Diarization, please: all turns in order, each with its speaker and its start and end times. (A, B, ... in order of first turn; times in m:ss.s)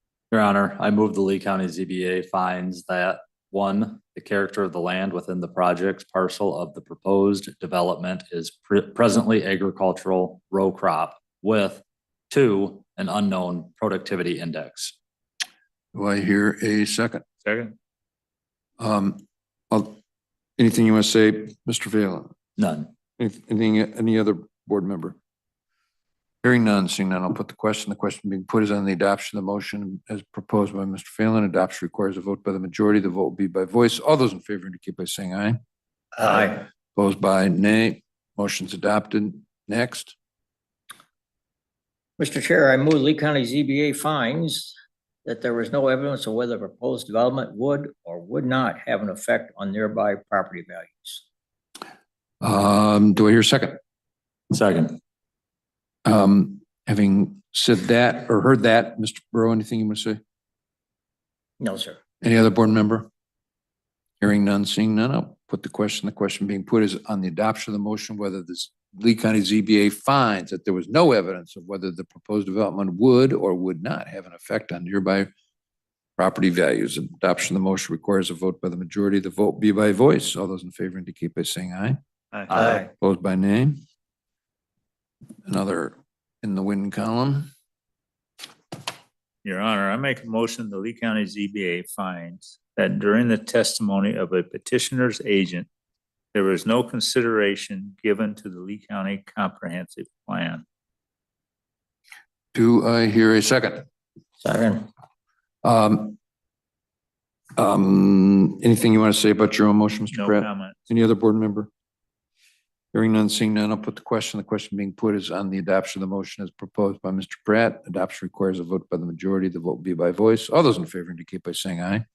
0:00.3-0:15.0 A
0:15.9-0:17.3 B
0:17.4-0:17.8 C
0:18.8-0:20.0 B
0:20.6-0:22.3 B
0:22.6-0:22.9 A
0:23.2-0:25.2 B
0:26.4-0:35.6 B
0:36.2-0:36.6 D
0:36.9-0:40.2 B
0:42.2-0:51.2 D
0:52.4-0:53.8 B
0:54.5-0:55.0 A
0:56.0-1:00.2 B
1:01.6-1:02.0 D
1:02.2-1:03.1 B
1:04.2-1:15.3 B
1:16.2-1:22.0 B
1:22.3-1:22.8 C
1:22.7-1:23.8 B
1:25.5-1:27.5 B
1:29.4-1:35.7 C
1:36.3-1:40.6 C
1:42.5-1:43.9 B
1:44.4-1:44.9 D
1:45.6-1:46.2 B
1:47.6-1:51.7 B
1:50.1-1:50.8 C
1:52.9-2:02.0 B